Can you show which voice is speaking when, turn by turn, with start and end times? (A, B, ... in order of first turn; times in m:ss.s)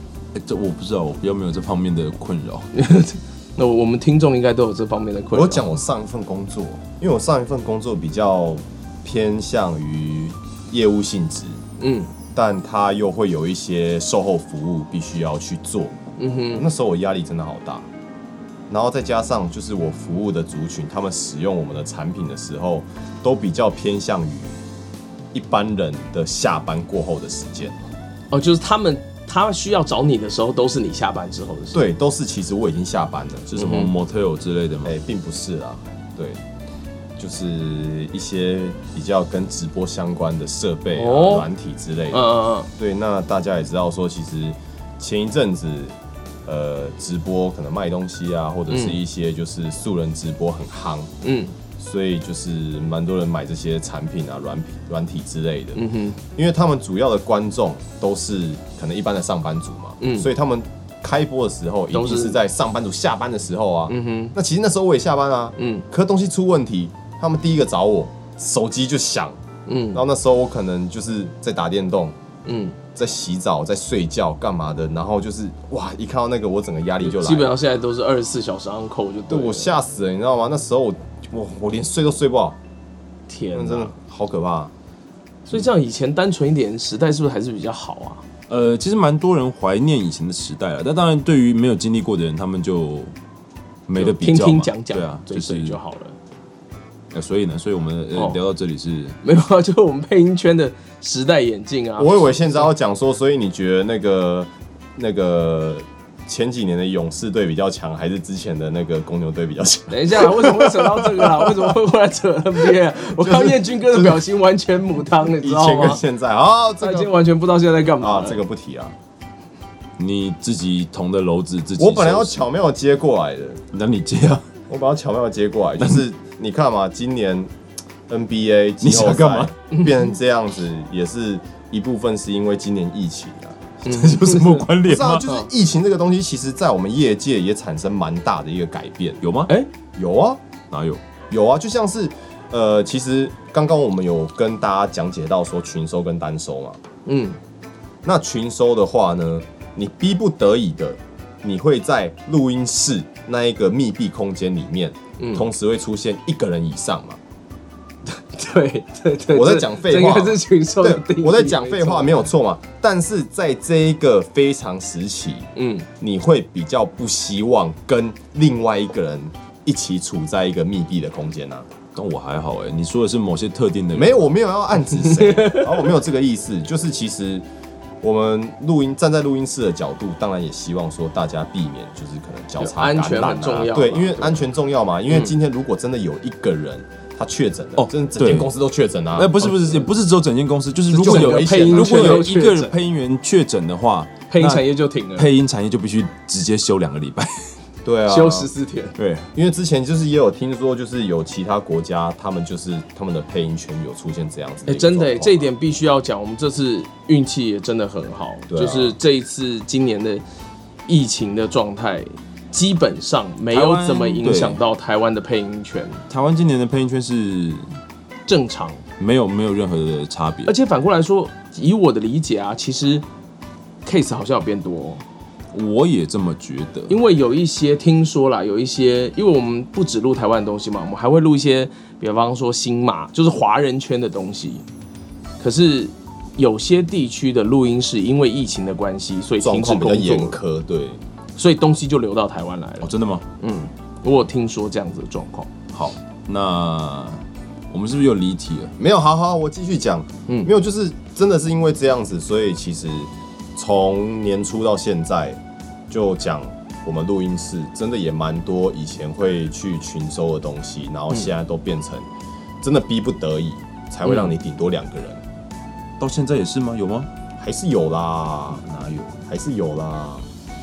0:00.4-0:02.7 A
0:02.7-0:05.7 B
0:05.3-0:11.6 C
0:11.8-0:12.1 B
0:12.4-0:16.0 C
0:16.2-0:16.7 B
0:16.5-0:17.9 C
0:18.7-0:24.6 C
0:25.3-0:27.8 C
0:28.3-0:31.8 B
0:31.7-0:33.9 C
0:33.5-0:34.9 A
0:33.6-0:33.9 B
0:34.8-0:36.4 C
0:37.2-0:45.9 C
0:40.9-0:41.5 B
0:42.1-0:42.7 B
0:46.5-0:51.1 C
0:48.7-0:49.0 B
0:51.2-0:51.6 B
0:51.8-0:55.8 C
0:55.8-0:56.2 B
0:56.4-1:09.4 C
1:00.0-1:00.3 B
1:01.9-1:02.4 B
1:03.9-1:04.4 B
1:05.6-1:05.8 B
1:09.7-1:10.0 B
1:09.9-1:12.2 C
1:12.4-1:12.8 B
1:13.0-1:17.5 C
1:17.0-1:19.8 B
1:19.3-1:22.6 C
1:23.3-1:24.0 B
1:23.5-1:24.7 C
1:25.5-1:28.2 B
1:28.5-1:33.1 A
1:33.9-1:35.8 A
1:34.0-1:36.2 B
1:37.1-1:39.2 A
1:38.1-1:38.4 B
1:39.2-1:42.7 B
1:42.0-1:51.7 C
1:49.9-1:56.0 B
1:53.1-1:54.3 C
1:55.4-1:57.2 C
1:56.8-1:58.4 B
1:58.0-1:59.0 C
2:00.0-2:02.4 A
2:01.8-2:03.6 C
2:03.7-2:04.4 A
2:04.7-2:07.5 C
2:08.1-2:13.7 C
2:08.8-2:09.5 A
2:09.7-2:10.0 B
2:13.8-2:14.7 B
2:13.8-2:15.4 A
2:14.8-2:19.2 C
2:19.2-2:19.5 A
2:20.0-2:20.4 C
2:20.7-2:21.0 A
2:21.3-2:26.8 C
2:27.1-2:27.4 B
2:28.0-2:37.2 C
2:35.2-2:35.5 B
2:38.1-2:42.2 B
2:39.3-2:51.7 C
2:45.6-2:45.9 B
2:52.0-2:54.3 A
2:53.9-2:57.5 C
2:54.8-2:55.8 B
2:58.0-3:09.8 C
3:02.6-3:04.4 B
3:07.8-3:08.5 A
3:09.1-3:17.5 A
3:10.9-3:12.7 B
3:10.9-3:12.4 C
3:14.3-3:15.3 B
3:17.8-3:18.5 C
3:18.1-3:19.0 B
3:19.0-3:19.3 A
3:19.3-3:25.5 C
3:24.7-3:30.2 B
3:28.5-3:29.0 C
3:30.9-3:36.0 B
3:33.5-3:34.6 A
3:36.1-3:37.7 A
3:38.3-3:38.8 B
3:39.0-3:40.5 A
3:40.5-3:43.0 B
3:43.8-3:45.0 B
3:45.5-3:47.0 A
3:46.9-3:54.6 B
3:55.4-4:00.4 B
3:59.4-4:01.0 C
4:01.4-4:05.5 B
4:02.8-4:03.2 A
4:05.7-4:08.7 A
4:08.8-4:22.1 C
4:22.6-4:25.2 C
4:24.0-4:24.3 B
4:26.0-4:27.1 A
4:27.4-4:28.6 C
4:28.6-4:29.2 A
4:29.3-4:30.2 C